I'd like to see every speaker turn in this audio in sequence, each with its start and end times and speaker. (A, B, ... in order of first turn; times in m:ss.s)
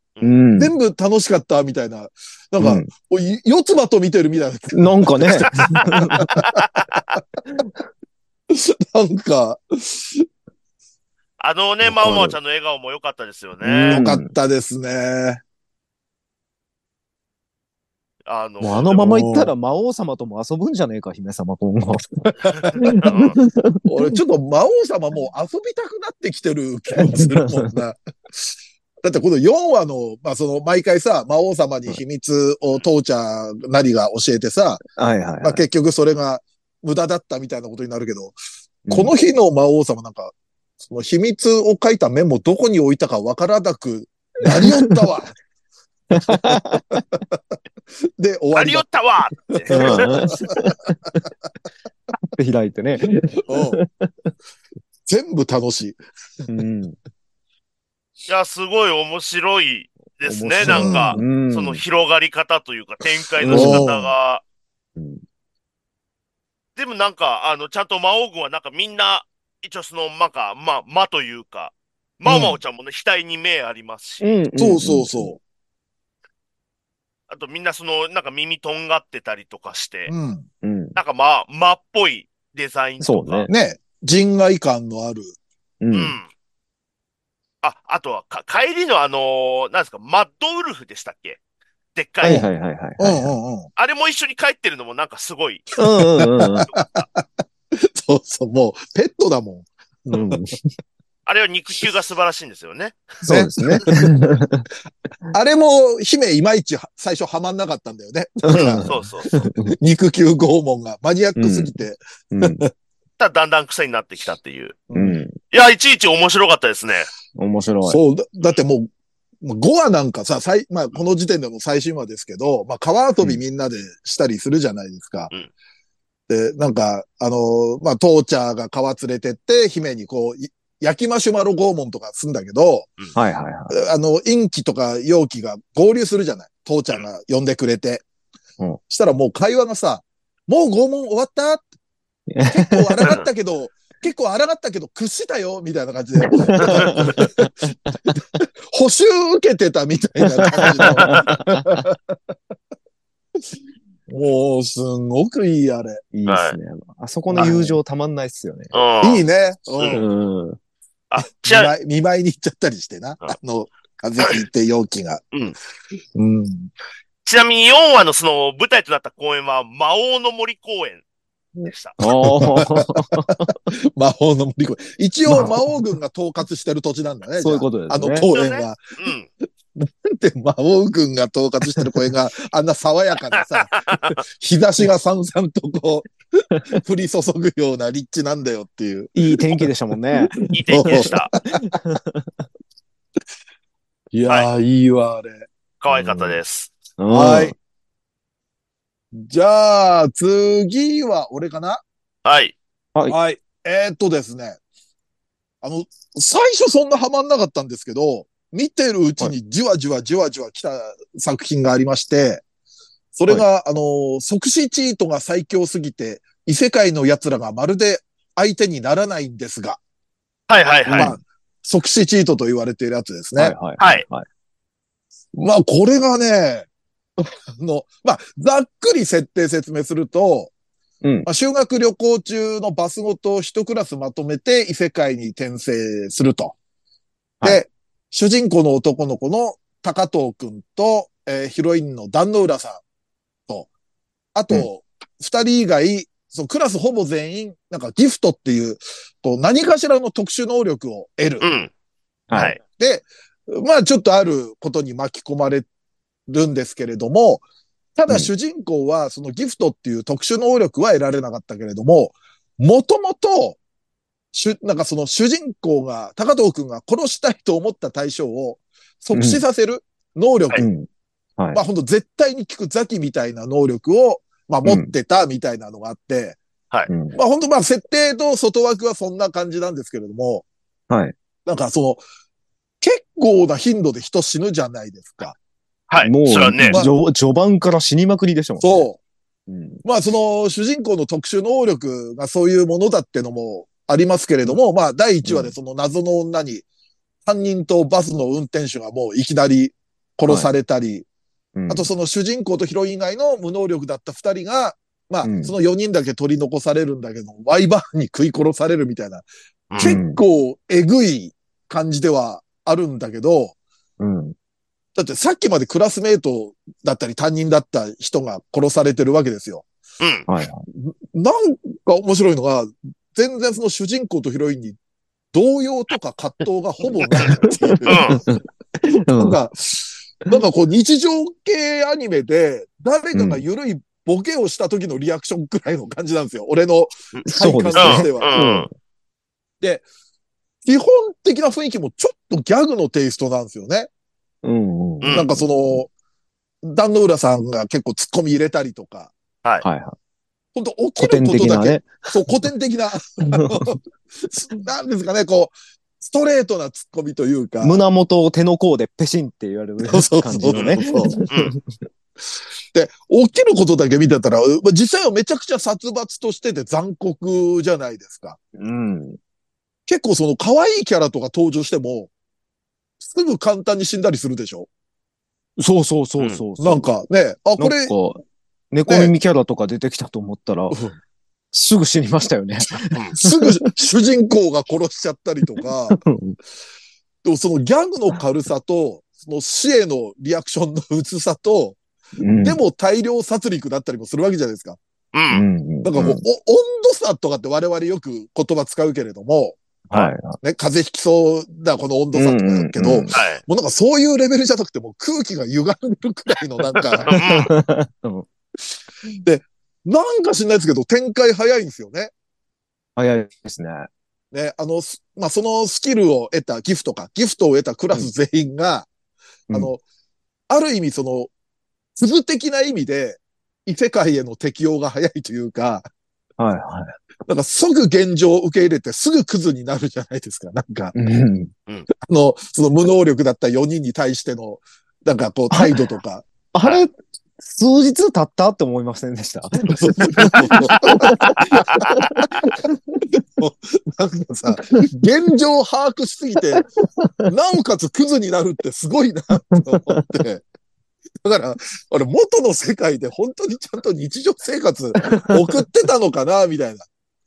0:00.2-0:00.7 A
0:00.6-0:07.2 B
0:02.6-0:02.9 A
0:04.7-0:06.3 A
0:05.5-0:05.9 C
0:06.4-0:07.2 C
0:08.5-0:10.2 B
0:11.4-0:14.0 C
0:11.8-0:12.4 A
0:13.6-0:14.3 A
0:13.9-0:15.4 B
0:18.3-0:19.1 C
0:18.6-0:24.2 A
0:19.0-0:19.5 B
0:22.6-0:23.4 C
0:23.9-0:28.5 B
0:27.0-0:27.8 A
0:29.0-0:34.8 B
0:35.0-0:35.6 A
0:35.4-0:38.4 B
0:38.9-0:39.1 A
0:38.9-0:45.3 B
0:44.5-0:45.0 A
0:46.1-0:47.1 A
0:46.3-0:47.4 B
0:48.2-0:48.8 B
0:48.5-0:50.2 C
0:49.5-0:50.7 B
0:49.7-0:51.0 A
0:52.3-0:54.3 A
0:53.5-0:53.8 B
0:55.1-0:56.0 B
0:56.5-0:57.0 A
0:58.3-1:04.4 C
1:00.2-1:01.8 A
1:00.6-1:01.2 B
1:03.4-1:03.9 A
1:03.4-1:04.1 B
1:05.0-1:05.2 A
1:06.8-1:14.2 C
1:12.2-1:12.6 B
1:14.2-1:15.3 A
1:14.6-1:15.4 B
1:17.3-1:20.1 C
1:20.1-1:20.5 B
1:20.6-1:21.0 A
1:21.0-1:23.5 C
1:23.0-1:23.5 A
1:23.5-1:25.4 B
1:25.8-1:26.2 A
1:25.9-1:26.3 C
1:27.6-1:31.4 C
1:32.0-1:32.4 C
1:32.2-1:33.3 A
1:33.0-1:33.7 B
1:33.8-1:35.7 C
1:35.8-1:36.7 A
1:36.2-1:40.4 B
1:36.7-1:37.0 C
1:40.1-1:40.6 A
1:41.3-1:43.0 C
1:43.2-1:44.7 A
1:43.3-1:44.1 B
1:45.3-1:48.9 B
1:48.4-1:49.7 A
1:48.8-1:49.3 C
1:49.8-1:52.7 B
1:51.4-1:51.7 A
1:52.3-1:52.6 A
1:53.2-1:54.8 C
1:54.9-1:55.2 B
1:54.9-1:55.4 A
1:55.5-1:57.1 C
1:57.4-1:58.0 A
1:57.9-1:58.9 B
1:59.4-2:05.3 B
2:06.3-2:12.9 B
2:13.2-2:13.7 A
2:13.7-2:18.0 B
2:18.9-2:21.6 B
2:22.3-2:23.0 A
2:22.5-2:27.5 B
2:26.2-2:28.0 A
2:28.1-2:32.2 B
2:30.4-2:31.8 A
2:31.0-2:31.3 C
2:34.1-2:36.0 B
2:36.1-2:38.7 A
2:36.3-2:36.6 C
2:37.3-2:37.8 B
2:38.7-2:39.2 C
2:39.0-2:40.0 B
2:39.8-2:40.0 C
2:39.9-2:40.6 A
2:41.1-2:41.7 C
2:41.4-2:45.2 B
2:46.2-2:46.7 B
2:47.2-2:51.0 C
2:51.6-2:58.8 B
2:51.6-2:52.0 C
2:52.0-2:53.5 A
2:55.3-2:55.7 A
2:57.4-2:58.3 A
2:58.3-2:59.3 C
2:59.8-3:06.1 B
3:03.3-3:04.2 C
3:06.7-3:09.7 B
3:09.2-3:12.3 A
3:10.2-3:11.2 B
3:10.5-3:11.3 C
3:14.1-3:15.5 B
3:15.8-3:16.7 C
3:15.9-3:16.4 A
3:17.0-3:17.6 A
3:17.1-3:17.6 B
3:19.1-3:21.8 B
3:22.2-3:22.6 C
3:23.1-3:24.6 B
3:25.6-3:32.4 B
3:33.2-3:39.8 B
3:40.5-3:41.1 C
3:40.9-3:41.2 A
3:40.9-3:43.6 B
3:43.4-3:44.2 A
3:43.8-3:44.0 C
3:45.4-3:46.7 B
3:47.2-3:50.5 B
3:51.0-3:51.3 A
3:51.3-3:56.6 B
3:57.4-4:02.8 B
4:04.4-4:11.5 B
4:11.4-4:11.7 C
4:12.3-4:12.6 A
4:12.3-4:12.6 C
4:12.6-4:15.7 B
4:16.3-4:17.4 B
4:18.0-4:23.6 B
4:24.3-4:30.7 B
4:29.1-4:29.4 A
4:30.6-4:31.6 A
4:31.5-4:36.4 B
4:34.6-4:34.9 A
4:36.9-4:37.2 A
4:37.1-4:40.5 B
4:40.9-4:41.2 A
4:41.5-4:42.0 B
4:42.8-4:45.4 B
4:45.9-4:46.8 C
4:46.0-4:48.9 A
4:48.6-4:49.0 B
4:49.5-4:49.8 A
4:49.8-4:56.7 B
4:55.2-4:55.5 A
4:57.3-5:01.1 B
5:01.6-5:01.9 A
5:01.7-5:09.3 B
5:05.2-5:05.6 A
5:09.7-5:10.0 C
5:09.8-5:13.6 B
5:09.8-5:10.2 A
5:14.0-5:14.4 A
5:15.0-5:19.6 B
5:20.0-5:20.3 C
5:20.3-5:20.6 A
5:20.7-5:24.8 B
5:25.3-5:28.2 B
5:27.1-5:29.4 A
5:27.9-5:28.2 C
5:29.2-5:38.4 B
5:33.1-5:33.4 A
5:37.2-5:38.7 A
5:37.8-5:38.7 C
5:40.6-5:43.9 B
5:44.4-5:45.8 A
5:45.0-5:45.3 C
5:45.1-5:45.9 B
5:46.6-5:49.1 B
5:49.6-5:50.0 A
5:50.6-5:57.8 B
5:51.0-5:52.0 A
5:53.3-5:53.8 A
5:57.6-6:01.6 A
5:59.8-6:01.2 B
6:00.5-6:01.6 C
6:02.7-6:08.4 B
6:08.6-6:09.2 A
6:09.9-6:12.1 B
6:13.0-6:14.7 B
6:15.6-6:16.9 A
6:16.6-6:17.9 B
6:17.6-6:20.8 A
6:18.9-6:19.1 B
6:20.7-6:21.0 B
6:21.5-6:23.7 A
6:23.2-6:26.0 B
6:25.9-6:26.4 A
6:27.2-6:31.8 B
6:32.2-6:32.6 A
6:32.4-6:34.8 B
6:35.1-6:35.4 C
6:35.3-6:36.2 A
6:35.8-6:39.6 B
6:39.9-6:40.4 A
6:40.4-6:47.1 B
6:42.1-6:43.2 A
6:43.1-6:43.4 C
6:46.8-6:47.5 C
6:47.1-6:48.3 A
6:49.2-6:52.1 B
6:53.0-6:53.9 A
6:54.3-6:58.9 B
6:59.5-6:59.8 B
7:00.5-7:01.3 B
7:02.0-7:05.8 B
7:06.4-7:06.9 A
7:07.3-7:11.0 B
7:10.9-7:11.5 A
7:12.0-7:16.2 B
7:15.5-7:15.8 A
7:16.5-7:23.0 A
7:19.7-7:21.8 B
7:20.9-7:22.2 C
7:23.4-7:26.7 B
7:26.5-7:27.2 A
7:27.3-7:30.4 B
7:29.5-7:30.1 A
7:31.2-7:36.9 B
7:35.0-7:35.4 A